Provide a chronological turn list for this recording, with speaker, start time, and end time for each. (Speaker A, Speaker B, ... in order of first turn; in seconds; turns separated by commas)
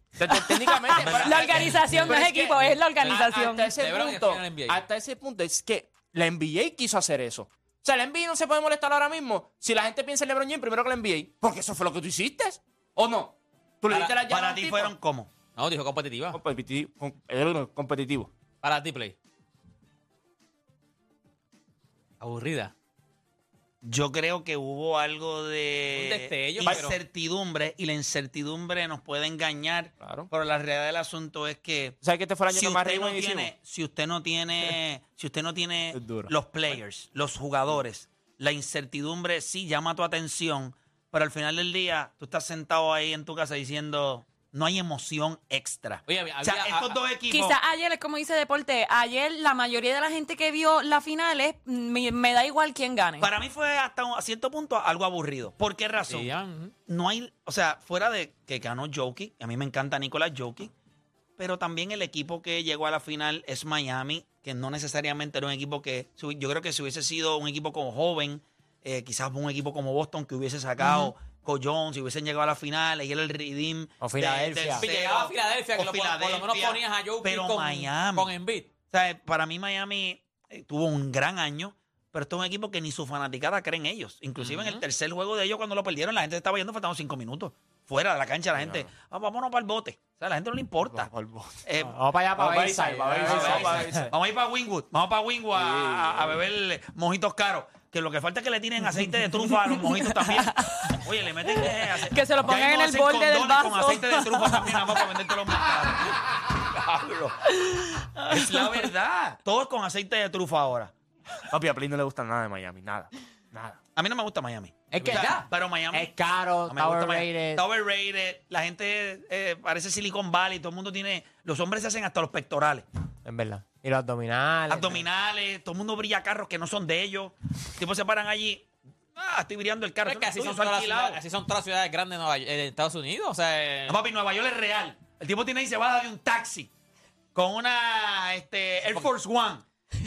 Speaker A: 0.2-14.9, Speaker B: 0.3-3.8, Speaker C: 0.9-2.2, Speaker D: 0.9-1.9, Speaker C: 2.8-4.8, Speaker C: 13.9-14.2, Speaker D: 14.2-15.3, Speaker C: 15.6-16.4, Speaker A: 16.3-18.3, Speaker C: 18.6-19.1, Speaker C: 22.2-22.7, Speaker D: 23.8-32.0, Speaker C: 25.9-27.0, Speaker A: 26.6-26.9, Speaker A: 30.0-30.3, Speaker A: 32.0-33.5, Speaker D: 32.5-47.6, Speaker A: 35.9-36.3, Speaker C: 46.1-47.0, Speaker B: 47.3-53.3, Speaker D: 53.2-56.3, Speaker C: 56.1-56.7, Speaker D: 56.9-60.7, Speaker D: 61.4-78.3, Speaker E: 74.0-74.9, Speaker C: 74.7-78.7, Speaker D: 78.9-91.1, Speaker C: 84.4-84.8, Speaker A: 88.5-88.9, Speaker A: 90.8-91.6, Speaker D: 91.7-92.0, Speaker E: 91.8-94.1, Speaker A: 92.3-94.1, Speaker D: 93.2-107.6, Speaker A: 95.5-96.4, Speaker B: 99.1-101.0, Speaker B: 101.5-105.0, Speaker B: 107.7-108.7, Speaker D: 108.3-110.9, Speaker A: 111.5-113.8, Speaker D: 114.0-122.8, Speaker E: 114.9-117.6, Speaker C: 115.0-115.3, Speaker E: 123.2-125.1, Speaker D: 124.7-131.2, Speaker C: 130.1-134.0, Speaker D: 133.9-136.7, Speaker D: 137.3-139.7, Speaker C: 138.8-139.1